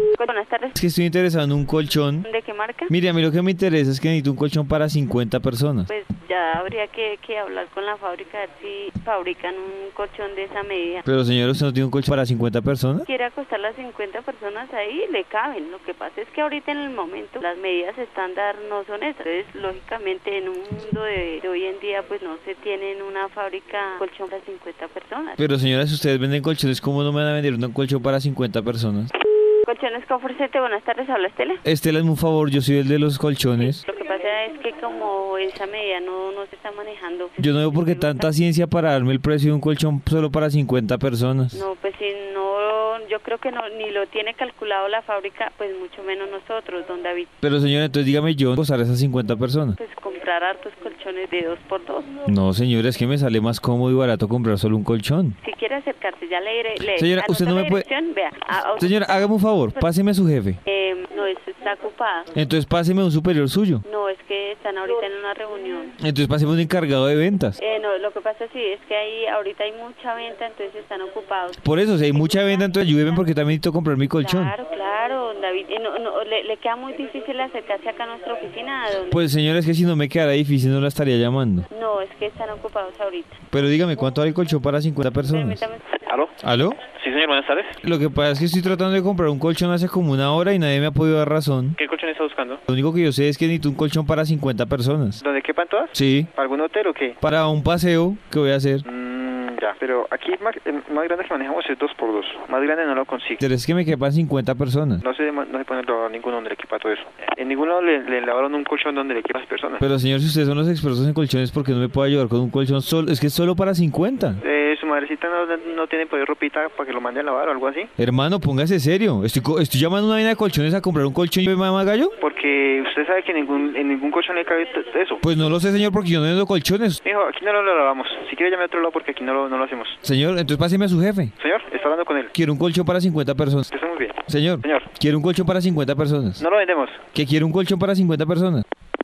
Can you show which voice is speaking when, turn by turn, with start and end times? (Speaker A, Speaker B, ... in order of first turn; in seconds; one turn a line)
Speaker A: 0.1-0.8
Speaker B: 0.8-2.3
Speaker A: 2.2-2.9
Speaker B: 2.9-5.9
Speaker A: 5.9-11.1
Speaker B: 11.1-13.1
Speaker A: 13.1-25.4
Speaker B: 25.4-29.1
Speaker A: 29.6-31.6
Speaker B: 31.6-33.8
Speaker A: 33.6-38.3
Speaker B: 37.4-41.6
Speaker A: 41.5-47.3
Speaker B: 47.4-49.8
Speaker A: 49.8-52.2
Speaker B: 52.3-55.4
Speaker A: 55.4-59.9
Speaker B: 56.9-57.9
Speaker B: 58.8-60.6
Speaker A: 60.6-62.3
Speaker B: 62.3-63.9
Speaker A: 63.8-65.9
Speaker B: 66.0-67.6
Speaker A: 67.6-73.1
Speaker B: 71.6-74.5
Speaker A: 74.2-79.2
Speaker B: 79.0-81.7
Speaker A: 81.7-83.4
Speaker B: 83.5-85.6
Speaker A: 85.3-85.9
Speaker C: 86.1-86.3
Speaker B: 86.4-86.8
Speaker C: 86.9-87.8
Speaker B: 87.8-91.8
Speaker C: 91.8-92.6
Speaker B: 92.7-95.2
Speaker C: 95.2-97.2
Speaker B: 96.0-96.3
Speaker B: 97.2-98.8
Speaker C: 98.8-103.4
Speaker B: 103.4-105.0
Speaker C: 105.0-109.8
Speaker B: 109.8-114.4
Speaker C: 114.4-117.9
Speaker B: 118.0-122.1
Speaker C: 122.2-125.2
Speaker B: 125.2-127.0
Speaker C: 127.0-130.0
Speaker B: 130.0-131.3
Speaker C: 131.4-132.3
Speaker B: 132.3-133.7
Speaker C: 133.7-134.9
Speaker B: 134.3-136.4
Speaker C: 136.4-137.0
Speaker B: 137.2-138.6